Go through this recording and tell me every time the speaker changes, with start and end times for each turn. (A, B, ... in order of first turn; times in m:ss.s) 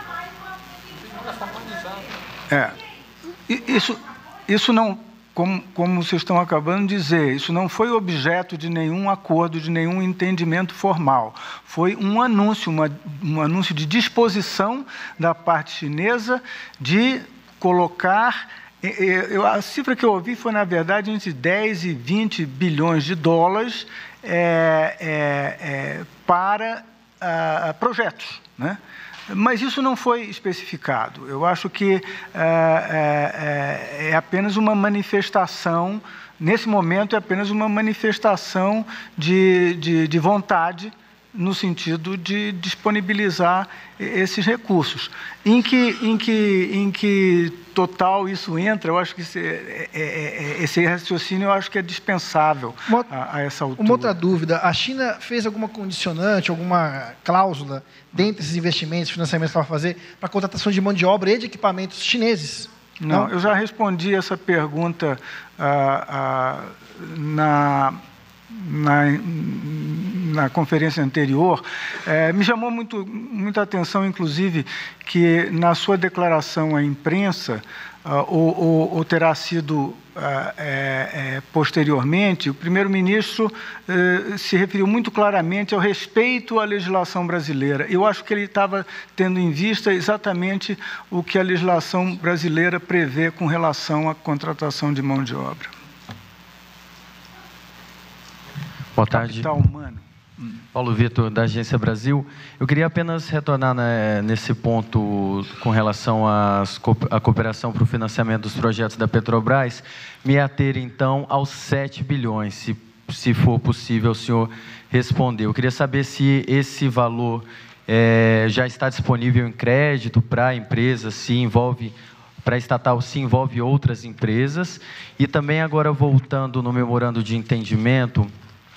0:02.5-0:02.8 A
0:03.5-0:54.2 A
0:53.8-1:03.3 B
1:03.0-1:35.7 A
1:39.0-1:39.5 C
1:39.1-1:40.0 A
1:40.7-2:08.3 C